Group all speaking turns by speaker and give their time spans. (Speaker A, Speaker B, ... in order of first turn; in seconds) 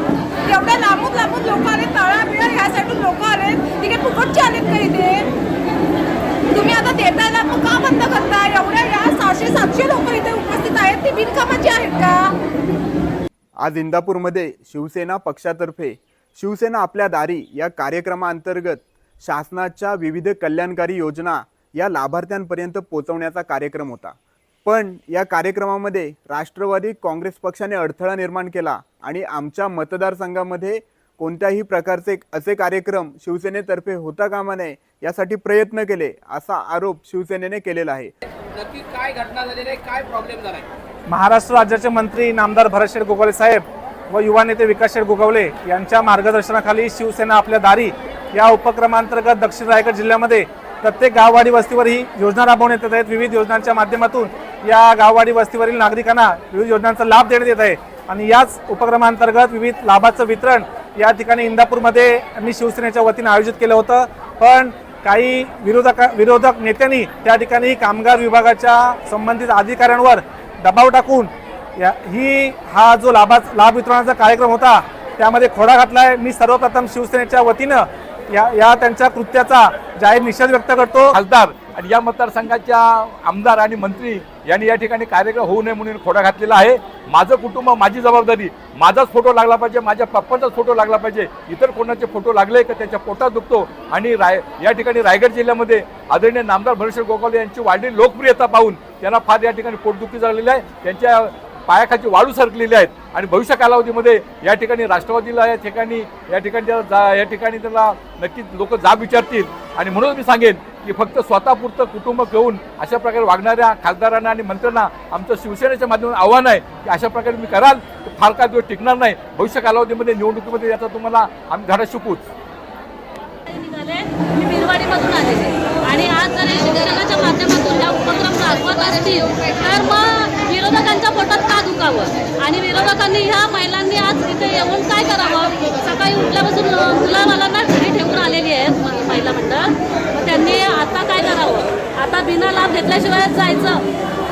Speaker A: 0.5-5.2, 6.5-12.3
Speaker B: 13.6-38.1
Speaker C: 38.5-40.7
Speaker D: 41.1-81.2
Speaker E: 81.1-122.3
Speaker F: 123.5-143.8